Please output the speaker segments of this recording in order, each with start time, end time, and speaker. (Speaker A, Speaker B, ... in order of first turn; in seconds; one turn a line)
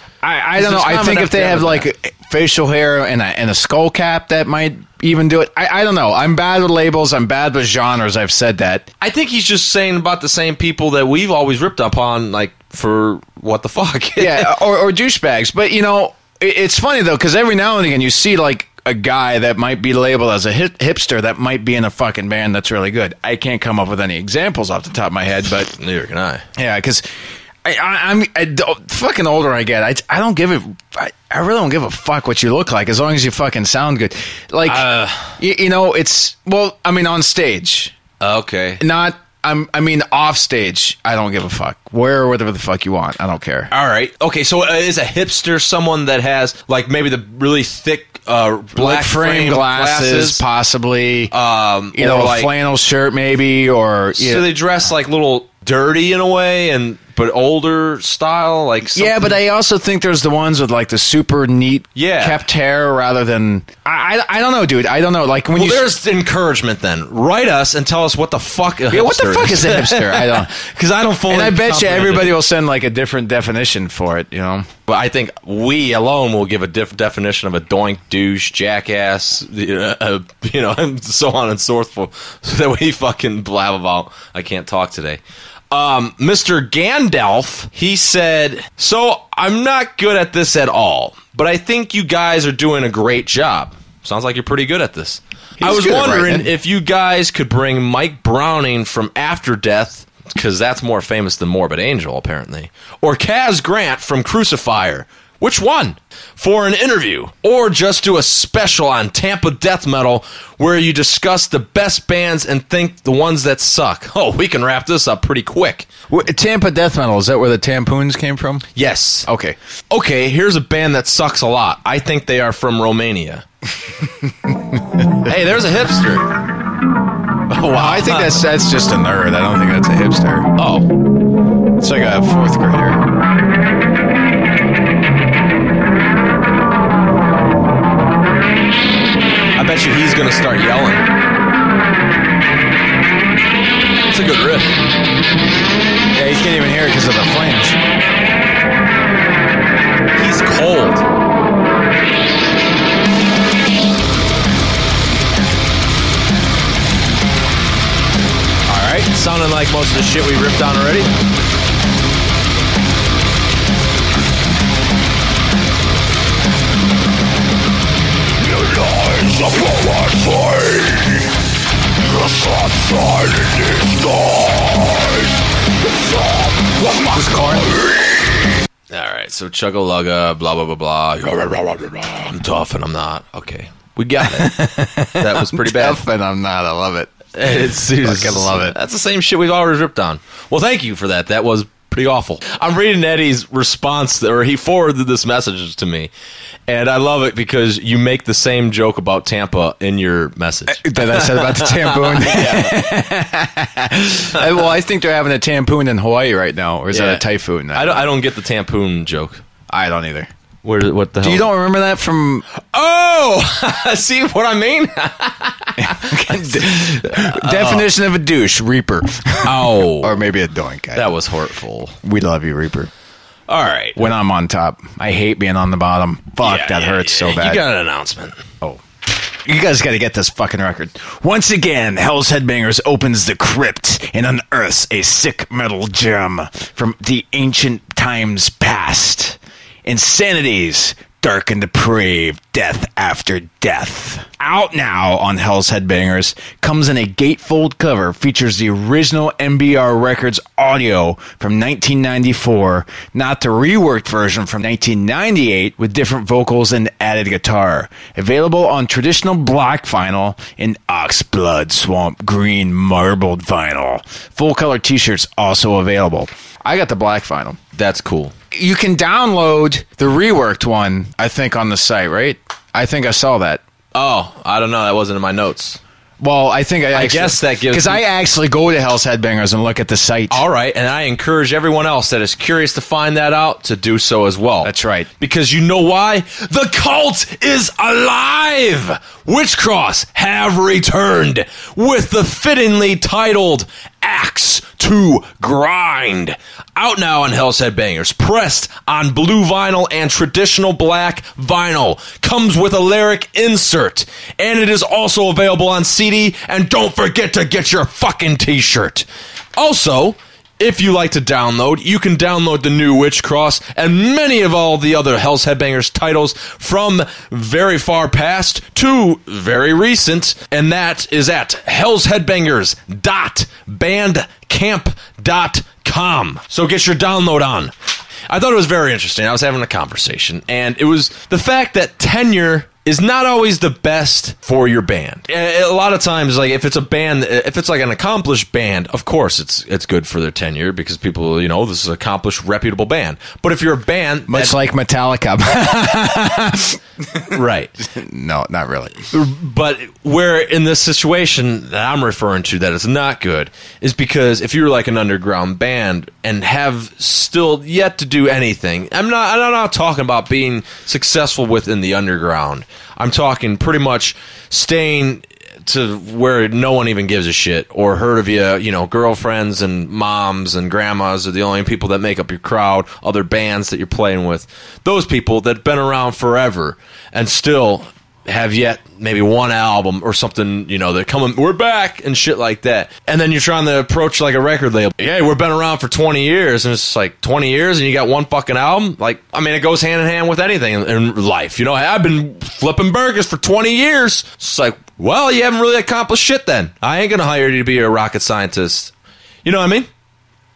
Speaker A: 0.2-8.8
Speaker B: 0.5-1.9
Speaker B: 9.0-14.5
Speaker A: 14.2-25.7
Speaker B: 25.8-26.4
Speaker A: 26.6-27.0
Speaker A: 27.6-37.9
Speaker B: 34.6-35.4
Speaker B: 38.2-38.8
Speaker A: 38.8-43.7
Speaker B: 43.7-50.4
Speaker A: 48.8-51.3
Speaker B: 51.3-52.5
Speaker A: 51.9-54.5
Speaker B: 54.2-59.3
Speaker A: 58.9-65.9
Speaker B: 61.9-62.4
Speaker B: 65.5-72.4
Speaker A: 68.9-70.6
Speaker A: 71.3-74.7
Speaker B: 74.9-115.9
Speaker A: 95.6-96.5
Speaker A: 116.1-118.7
Speaker B: 118.7-119.3
Speaker A: 119.3-119.6
Speaker B: 119.9-123.4
Speaker A: 124.0-125.3
Speaker B: 125.2-126.3
Speaker B: 127.5-128.5
Speaker A: 127.6-130.5
Speaker B: 130.6-130.9
Speaker A: 131.8-133.0
Speaker B: 139.6-141.0
Speaker B: 144.1-144.8
Speaker A: 146.1-147.8
Speaker B: 150.1-151.0
Speaker A: 158.7-159.1
Speaker B: 159.1-161.1
Speaker A: 176.8-177.8
Speaker B: 178.9-186.0
Speaker A: 184.2-188.7
Speaker B: 187.3-196.1
Speaker B: 196.7-202.9
Speaker A: 200.7-208.1
Speaker B: 206.9-209.4
Speaker A: 209.7-210.3
Speaker B: 210.6-211.5
Speaker A: 211.2-212.4
Speaker B: 212.6-217.9
Speaker A: 215.8-221.1
Speaker B: 219.4-220.2
Speaker B: 220.9-221.9
Speaker A: 222.0-222.9
Speaker B: 223.5-224.1
Speaker A: 224.0-227.7
Speaker B: 226.4-228.4
Speaker A: 229.4-267.6
Speaker B: 267.8-268.3
Speaker A: 268.5-273.6
Speaker B: 273.9-275.8
Speaker A: 276.2-280.4
Speaker B: 276.9-278.0
Speaker B: 280.3-327.7
Speaker A: 284.6-285.1
Speaker B: 328.3-344.5
Speaker A: 344.3-349.1
Speaker B: 347.3-347.7
Speaker B: 349.1-398.9
Speaker B: 399.4-399.9